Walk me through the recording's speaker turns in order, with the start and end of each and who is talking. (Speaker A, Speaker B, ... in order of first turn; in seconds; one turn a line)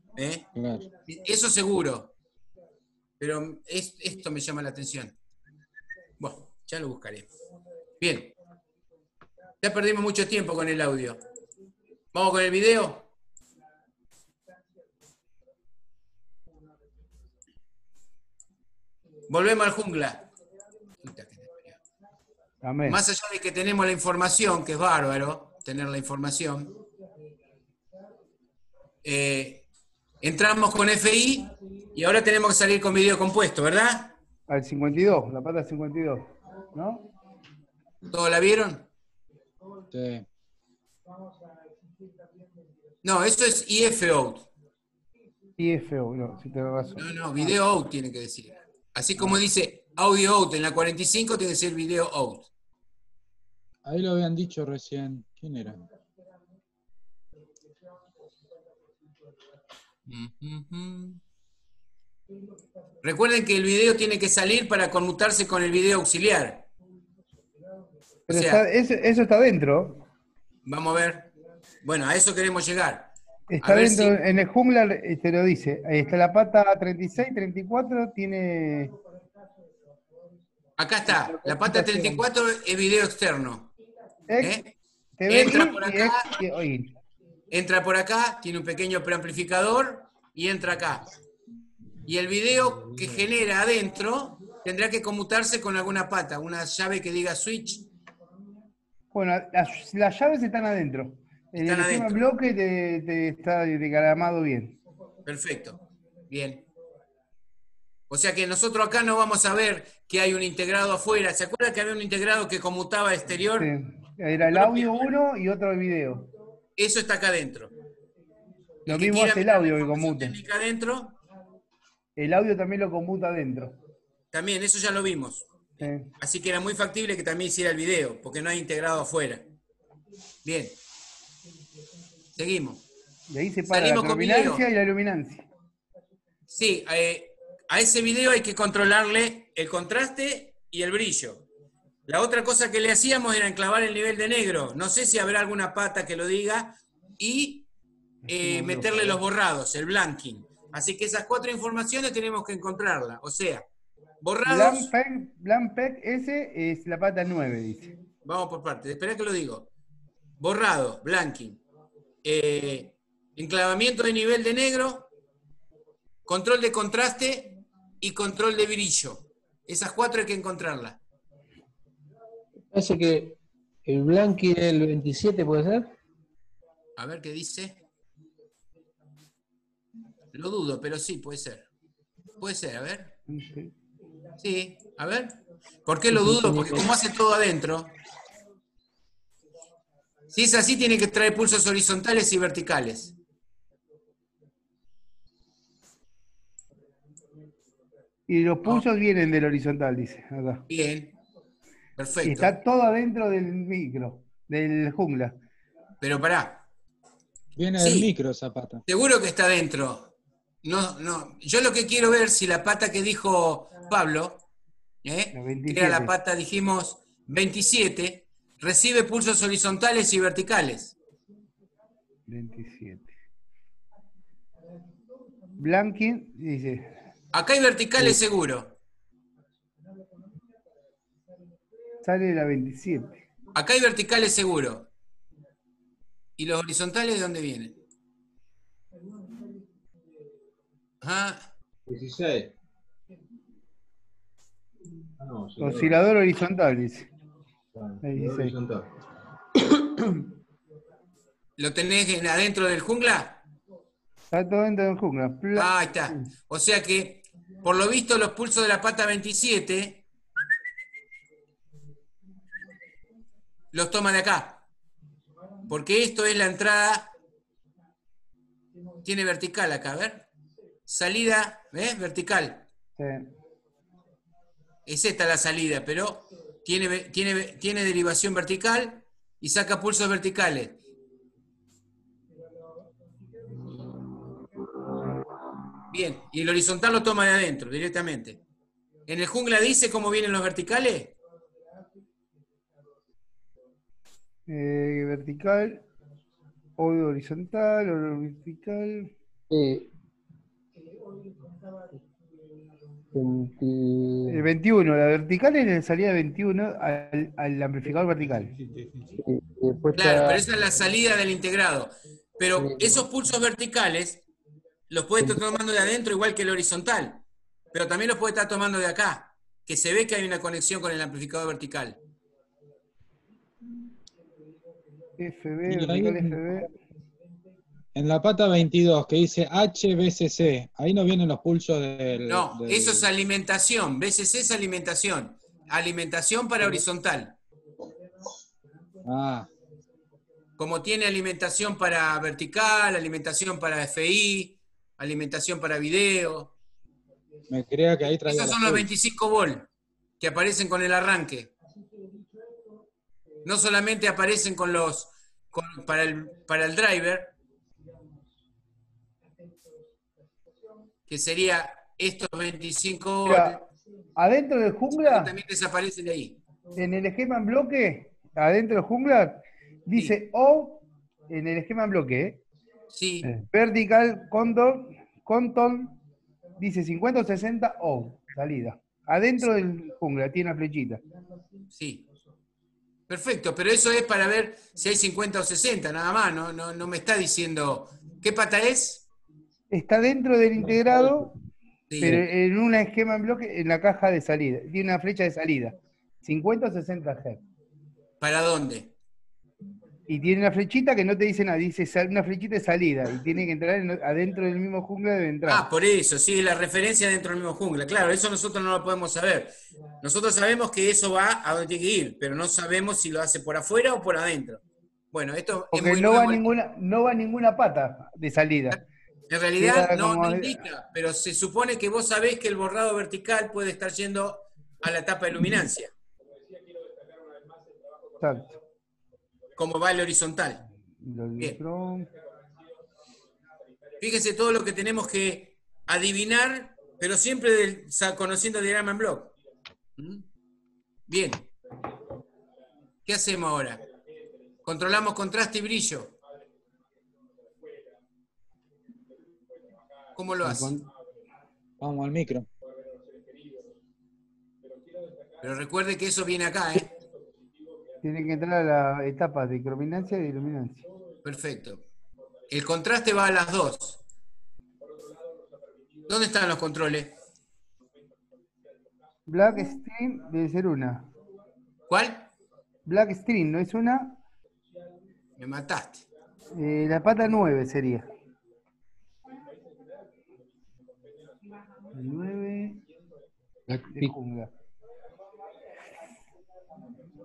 Speaker A: 0.2-0.4
Speaker B: 0.6-0.9
Speaker A: 1.1-2.1
Speaker A: 3.2-5.1
Speaker A: 6.2-7.3
Speaker A: 8.0-8.3
Speaker A: 9.6-11.2
Speaker A: 12.1-13.1
Speaker A: 19.3-20.2
Speaker A: 21.0-21.8
Speaker C: 22.6-23.0
Speaker A: 22.9-26.7
Speaker A: 29.0-29.6
Speaker A: 30.2-34.1
Speaker C: 34.5-37.1
Speaker A: 38.1-38.9
Speaker B: 39.9-40.2
Speaker A: 43.0-44.5
Speaker C: 45.6-47.5
Speaker A: 47.0-52.5
Speaker B: 53.8-55.9
Speaker A: 60.1-61.2
Speaker A: 63.0-66.7
Speaker C: 68.3-70.0
Speaker A: 68.3-68.6
Speaker A: 70.6-71.3
Speaker A: 71.8-73.1
Speaker C: 73.5-78.9
Speaker A: 73.6-74.2
Speaker A: 80.8-83.7
Speaker C: 81.1-82.2
Speaker C: 84.3-84.6
Speaker A: 84.4-84.7
Speaker C: 85.2-86.9
Speaker A: 85.3-86.3
Speaker A: 87.5-91.1
Speaker A: 92.0-97.8
Speaker C: 99.1-104.8
Speaker A: 101.5-102.2
Speaker A: 105.2-105.8
Speaker A: 106.3-106.6
Speaker A: 108.1-113.7
Speaker C: 113.6-116.3
Speaker A: 114.5-115.1
Speaker A: 116.8-117.7
Speaker C: 118.9-120.3
Speaker A: 118.9-121.2
Speaker C: 122.2-123.8
Speaker A: 124.3-125.5
Speaker C: 125.8-126.1
Speaker A: 126.2-129.4
Speaker A: 130.4-130.8
Speaker A: 132.3-132.8
Speaker C: 133.3-135.5
Speaker A: 133.7-134.6
Speaker A: 136.5-141.4
Speaker A: 142.1-147.7
Speaker C: 148.2-149.2
Speaker A: 148.3-153.6
Speaker A: 154.2-154.9
Speaker C: 154.4-157.9
Speaker A: 158.2-159.7
Speaker A: 160.4-161.6
Speaker A: 162.2-165.1
Speaker A: 166.2-171.0
Speaker D: 172.7-175.9
Speaker A: 177.0-177.8
Speaker A: 180.3-181.7
Speaker A: 182.4-183.1
Speaker C: 183.3-183.7
Speaker A: 184.4-187.9
Speaker D: 186.1-186.9
Speaker A: 190.3-193.1
Speaker C: 198.3-200.6
Speaker A: 200.7-201.1
Speaker A: 202.0-202.6
Speaker C: 202.2-205.3
Speaker A: 206.0-206.6
Speaker B: 207.6-208.8
Speaker A: 207.8-208.1
Speaker A: 208.9-210.1
Speaker A: 210.6-214.4
Speaker A: 215.0-220.9
Speaker C: 215.3-216.1
Speaker C: 222.3-223.1
Speaker C: 225.6-226.9
Speaker A: 227.3-228.8
Speaker C: 232.0-233.2
Speaker A: 233.5-234.9
Speaker A: 236.4-237.8
Speaker A: 241.0-241.5
Speaker E: 241.9-242.5
Speaker E: 245.2-246.0
Speaker C: 245.6-247.1
Speaker E: 247.7-248.9
Speaker C: 248.0-248.5
Speaker A: 251.6-253.4
Speaker C: 254.3-256.2
Speaker A: 255.5-260.1
Speaker A: 263.7-264.6
Speaker A: 265.7-267.1
Speaker A: 269.0-270.2
Speaker A: 270.9-272.6
Speaker C: 273.0-273.3
Speaker A: 274.9-280.8
Speaker A: 285.9-288.4
Speaker A: 289.1-291.1
Speaker C: 294.5-295.8
Speaker C: 296.8-299.1
Speaker D: 299.5-299.9
Speaker D: 303.1-304.4
Speaker C: 304.3-308.5
Speaker D: 309.2-310.4
Speaker A: 309.9-314.2
Speaker D: 312.6-313.0
Speaker A: 314.9-317.2
Speaker A: 317.7-322.0
Speaker C: 325.2-326.7
Speaker B: 325.6-326.6
Speaker B: 327.9-333.1
Speaker A: 332.3-337.4
Speaker B: 339.0-339.5
Speaker A: 340.6-346.5
Speaker B: 347.5-348.9
Speaker A: 348.2-349.7
Speaker A: 350.2-351.5
Speaker A: 353.4-357.3
Speaker A: 361.1-363.6
Speaker C: 363.2-363.6
Speaker C: 364.2-365.3
Speaker A: 364.9-366.4
Speaker C: 366.8-372.4
Speaker A: 372.9-373.3
Speaker C: 373.2-376.0
Speaker C: 376.6-381.0
Speaker A: 381.7-382.1
Speaker A: 383.1-389.0
Speaker C: 389.7-391.3
Speaker D: 390.6-391.3
Speaker A: 391.9-392.2
Speaker C: 392.0-397.4
Speaker A: 398.2-398.9
Speaker C: 400.1-405.6
Speaker A: 405.4-416.4
Speaker C: 415.7-418.8
Speaker A: 419.3-425.9
Speaker C: 419.6-420.6
Speaker C: 428.2-428.6
Speaker A: 429.6-430.6
Speaker C: 431.0-432.1
Speaker A: 434.0-439.3
Speaker A: 440.0-440.2
Speaker A: 441.1-441.5
Speaker A: 443.1-443.8
Speaker A: 444.6-446.1
Speaker A: 450.1-450.8
Speaker C: 450.4-450.8
Speaker B: 451.8-452.5
Speaker A: 455.4-456.9
Speaker C: 458.0-460.9
Speaker A: 461.2-461.8
Speaker A: 462.5-464.0
Speaker A: 466.1-467.1
Speaker C: 469.3-471.1
Speaker A: 471.9-472.3
Speaker C: 472.9-474.2
Speaker A: 475.4-476.1
Speaker C: 476.5-478.1
Speaker C: 481.9-482.8
Speaker D: 483.7-484.1
Speaker C: 483.9-484.5